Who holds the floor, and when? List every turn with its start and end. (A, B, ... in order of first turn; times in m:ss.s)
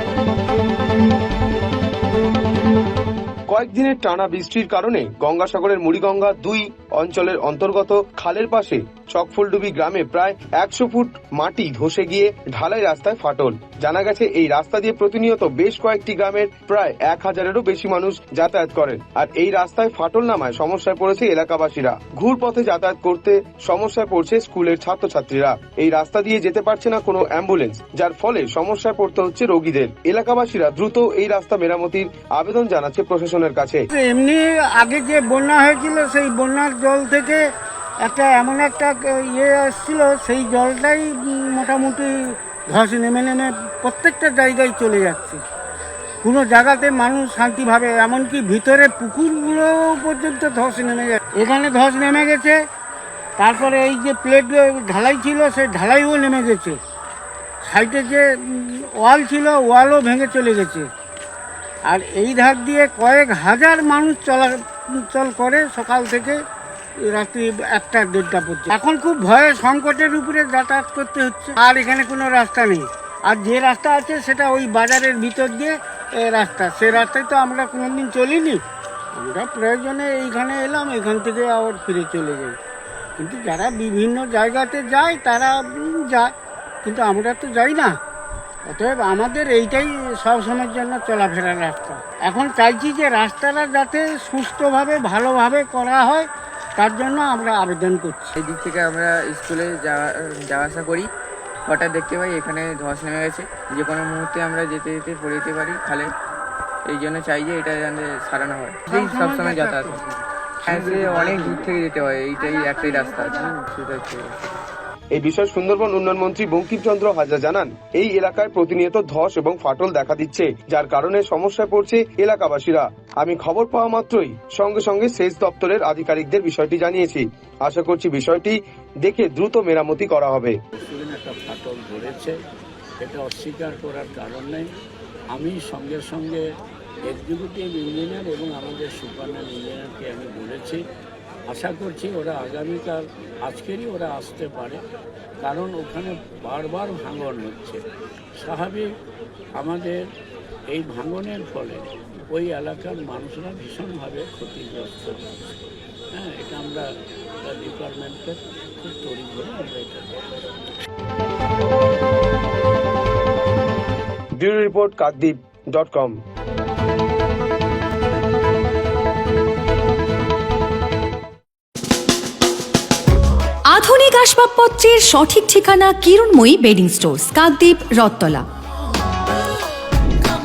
0:03.5-0:33.9 A
0:33.9-0:37.4 B
0:38.0-0:42.2 B
0:42.7-0:45.4 B
0:46.2-0:52.6 B
0:53.4-0:56.8 B
0:57.6-1:00.9 B
1:01.9-1:06.4 B
1:07.0-1:18.6 B
1:19.1-1:22.6 B
1:23.2-1:26.3 B
1:26.8-1:27.9 B
1:28.7-1:38.4 B
1:38.4-1:41.1 C
1:41.7-1:46.1 C
1:46.9-1:50.0 C
1:48.9-1:50.0 B
1:50.7-1:54.4 C
1:50.7-1:51.6 B
1:52.5-1:53.5 B
1:55.1-2:10.6 A
2:10.8-2:12.4 D
2:13.0-2:14.7 D
2:15.3-2:16.4 D
2:17.0-2:20.8 D
2:21.5-2:24.8 D
2:25.4-2:27.8 D
2:28.4-2:28.9 D
2:29.6-2:30.0 D
2:30.7-2:35.2 D
2:36.1-2:36.8 D
2:37.4-2:40.2 D
2:44.4-2:46.2 A
2:53.7-2:58.4 E